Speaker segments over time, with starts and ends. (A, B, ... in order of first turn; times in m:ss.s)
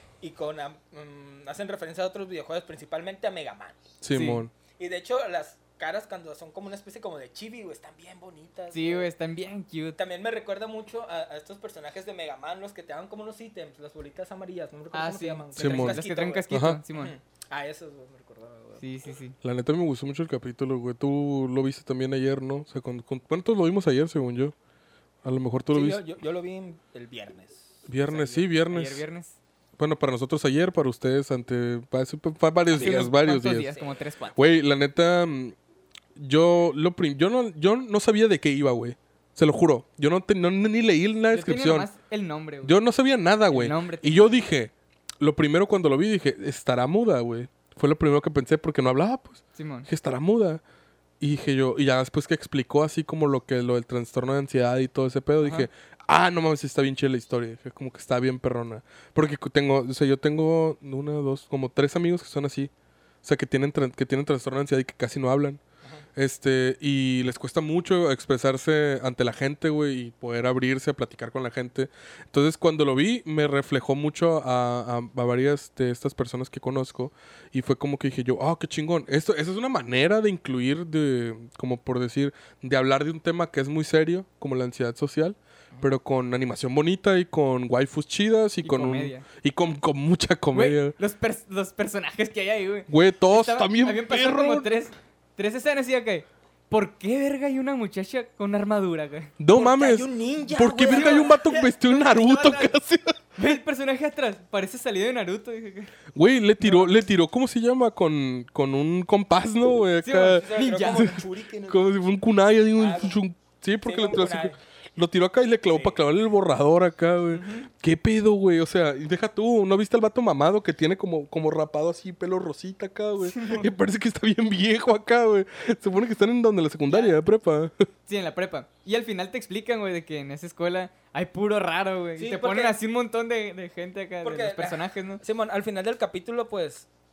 0:00.2-0:03.8 A
0:04.0-0:04.5 B
0:04.1-0:04.4 C
0:04.8-0:09.1 A
0:08.7-0:10.0 C
0:10.0-0:18.8 A
0:14.9-0:17.2 C
0:15.6-0:16.8 B
0:18.8-0:19.4 C
0:19.4-0:24.6 B
0:25.2-0:26.0 B
0:25.7-0:28.5 A
0:27.9-0:29.0 B
0:28.6-0:29.4 C
0:29.8-0:33.7 B
0:32.7-0:33.1 A
0:32.7-0:34.6 C
0:34.4-0:35.6 B
0:36.2-0:41.9 B
0:41.3-0:42.8 C
0:42.6-0:50.6 B
0:43.5-0:44.4 C
0:49.6-0:49.9 C
0:51.2-1:02.7 B
0:55.4-0:55.7 C
1:03.2-1:05.6 B
1:06.2-1:31.0 B
1:28.6-1:29.2 C
1:30.5-1:39.3 C
1:32.9-1:34.7 B
1:39.4-1:43.2 B
1:39.5-1:41.7 A
1:40.9-1:42.7 C
1:43.4-1:45.9 C
1:46.2-1:50.5 B
1:46.6-1:47.0 A
1:50.0-1:51.2 C
1:50.3-1:52.0 A
1:51.7-2:07.9 B
1:52.8-1:53.2 A
1:53.8-1:54.6 A
1:55.7-1:56.0 A
1:57.3-1:57.7 C
2:03.3-2:03.7 C
2:06.9-2:07.2 A
2:08.1-2:15.2 C
2:12.2-2:12.8 A
2:14.2-2:16.9 A